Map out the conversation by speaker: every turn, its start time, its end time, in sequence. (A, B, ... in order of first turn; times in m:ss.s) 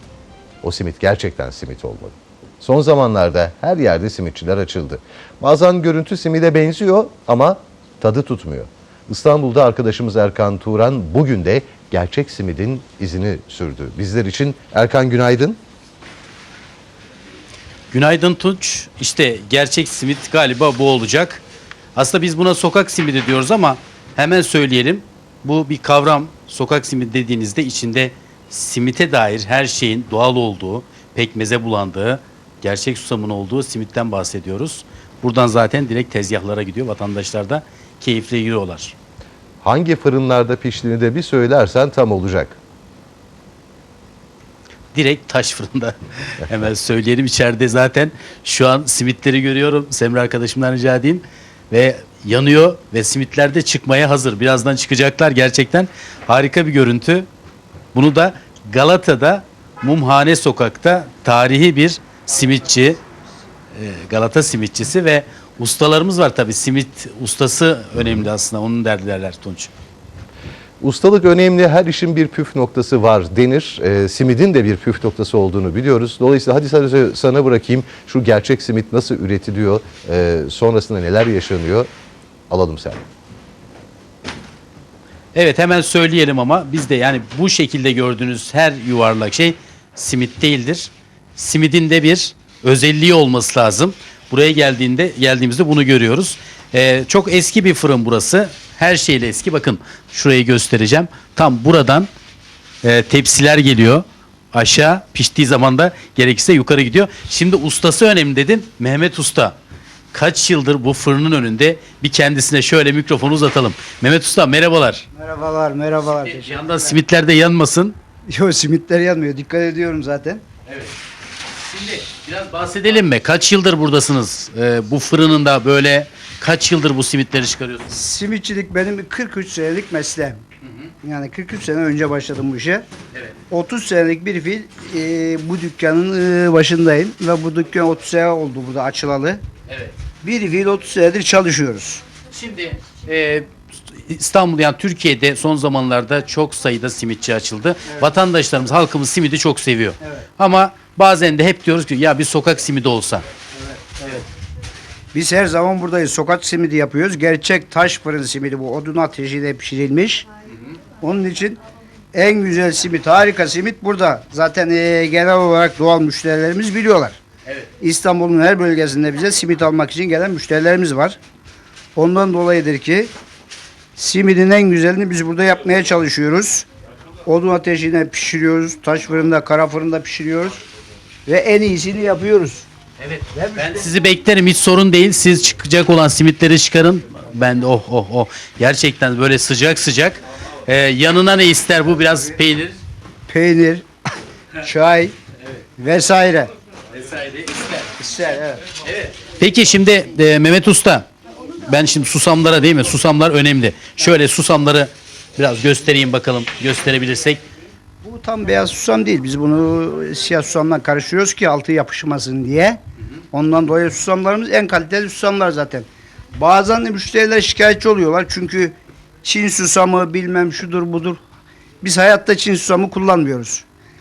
0:00.6-0:15.6 A
0:17.9-0:21.4 B
0:22.0-0:39.0 B
0:39.6-0:42.6 A
0:44.9-0:57.3 B
0:57.9-1:03.0 B
1:03.8-1:09.7 B
1:10.8-1:21.9 A
1:22.5-1:23.0 A
1:25.3-1:42.1 B
1:42.8-1:49.6 B
1:50.1-1:55.1 B
1:55.1-1:57.0 C
1:56.2-1:58.0 B
1:58.3-2:00.4 C
2:00.7-2:00.9 B
2:01.6-2:07.9 B
2:07.9-2:10.4 C
2:10.6-2:10.9 B
2:11.0-2:12.8 C
2:13.5-2:19.4 C
2:19.7-2:19.9 B
2:20.2-2:22.0 C
2:22.3-2:33.2 B
2:34.0-2:34.2 B
2:35.1-2:40.3 C
2:41.0-2:41.6 C
2:42.1-2:47.2 C
2:47.8-2:51.2 C
2:52.0-2:53.1 C
2:54.0-2:56.7 C
2:57.2-3:00.6 C
3:01.3-3:02.7 C
3:03.0-3:12.8 B
3:03.3-3:03.9 C
3:13.3-3:13.8 C
3:14.6-3:15.2 C
3:15.8-3:16.5 C
3:16.9-3:17.9 B
3:18.0-3:18.6 C
3:18.8-3:21.1 B
3:21.7-3:27.4 B
3:28.0-3:32.8 C
3:33.3-3:41.2 C
3:41.8-3:43.6 C